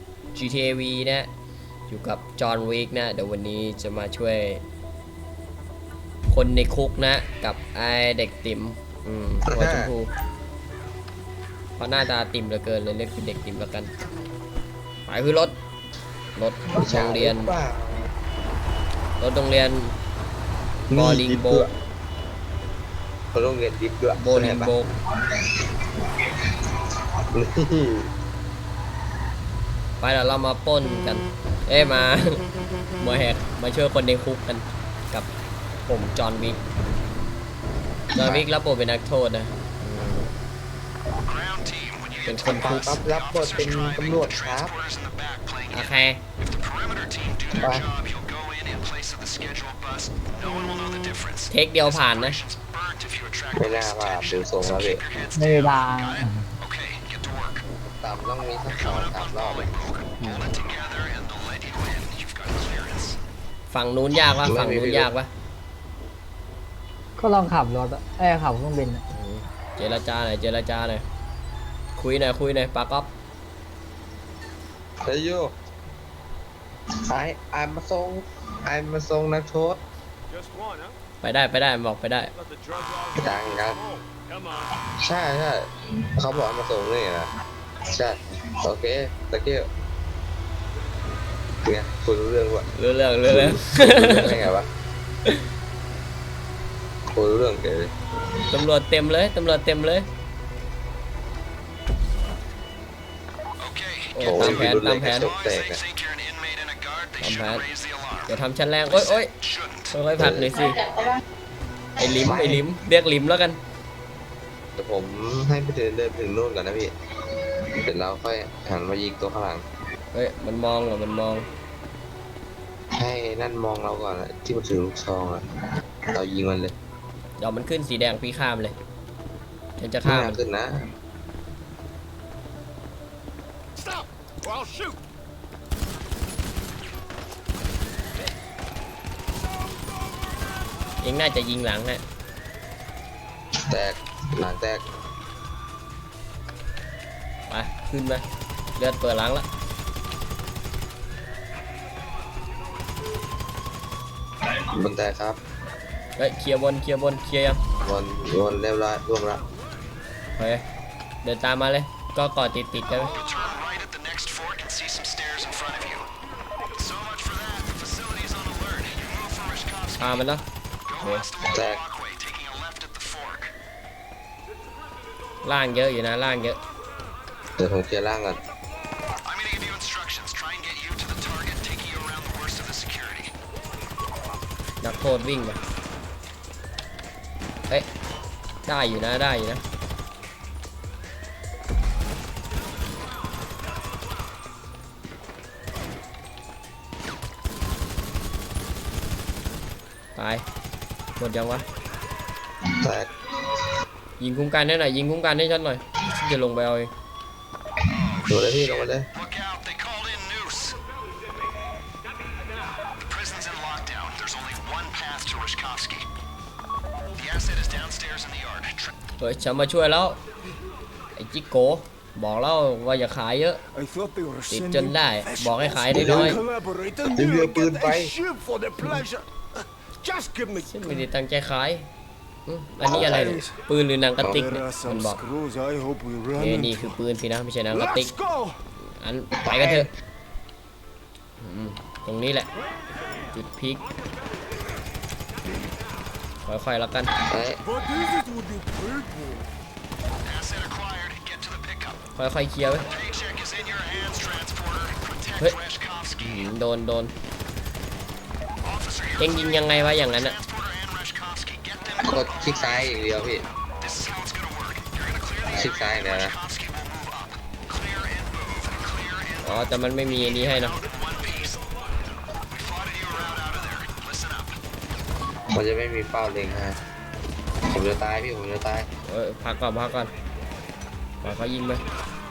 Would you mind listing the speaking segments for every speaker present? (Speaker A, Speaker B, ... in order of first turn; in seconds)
Speaker A: 0.3-1.3, 1.9-4.6, 6.3-10.1, 11.8-13.9, 15.1-15.5, 16.4-17.5, 19.2-20.0, 20.9-21.7, 24.2-24.9, 30.0-32.5, 33.0-35.3, 35.9-36.6, 38.1-40.3, 42.2-43.0, 45.7-46.2, 51.5-52.4, 63.7-65.3, 69.1-71.0, 72.0-73.1, 81.2-82.3, 92.7-94.5, 98.5-100.1, 104.1-105.3, 107.2-107.7, 108.3-109.3, 109.9-110.8, 112.0-113.6, 120.1-121.5, 127.4-128.8, 129.8-130.4, 141.0-142.0, 147.5-148.2, 148.8-149.5, 156.2-157.6, 160.4-160.6, 161.2-163.1, 170.0-170.4, 171.0-171.3, 175.4-176.6, 184.8-185.6, 188.7-189.6, 200.2-200.4, 201.2-201.6, 204.2-206.9, 219.2-220.2, 221.2-223.6, 224.5-226.4, 230.6-231.9, 232.5-235.2, 236.3-238.1, 238.8-239.9, 241.4-242.5, 243.3-243.8, 246.4-247.1, 252.2-252.9, 256.2-257.1, 259.2-260.4, 269.4-270.8, 279.1-280.1, 281.2-281.8
Speaker B: 9.5-9.9, 16.8-18.1, 20.9-21.7, 23.3-24.7, 25.3-25.6, 27.3-28.1, 38.1-38.5, 42.4-44.7, 47.6-47.9, 53.6-55.0, 57.9-59.7, 64.4-65.1, 75.0-75.5, 77.1-79.8, 83.2-83.8, 85.0-87.3, 87.9-89.7, 91.6-92.7, 93.3-94.7, 97.1-97.9, 104.2-105.8, 110.2-110.7, 112.2-112.6, 114.8-119.6, 123.0-125.4, 126.1-126.7, 130.0-130.8, 143.7-144.8, 154.5-155.4, 157.8-159.4, 171.5-171.8, 177.6-178.4, 202.7-203.7, 208.2-209.1, 225.9-226.4, 227.1-228.1, 232.9-233.3, 239.4-239.9, 247.3-247.6, 262.0-263.4, 265.5-266.3, 275.5-276.8, 277.7-278.9
Speaker C: 41.3-57.6, 58.7-63.2, 103.6-108.3, 109.3-109.9, 163.0-166.1, 166.7-170.3, 170.9-173.5, 179.2-183.3, 207.9-210.8, 213.1-216.1, 217.1-218.9, 250.2-252.0, 252.9-256.4, 258.6-262.8, 263.8-269.7, 270.4-271.7, 272.5-274.6
Speaker D: 55.4-56.5, 67.2-69.0
Speaker E: 80.3-81.0, 82.3-84.7, 133.8-135.0, 223.7-231.1, 232.9-233.6, 234.3-237.0, 237.7-238.6, 247.6-249.5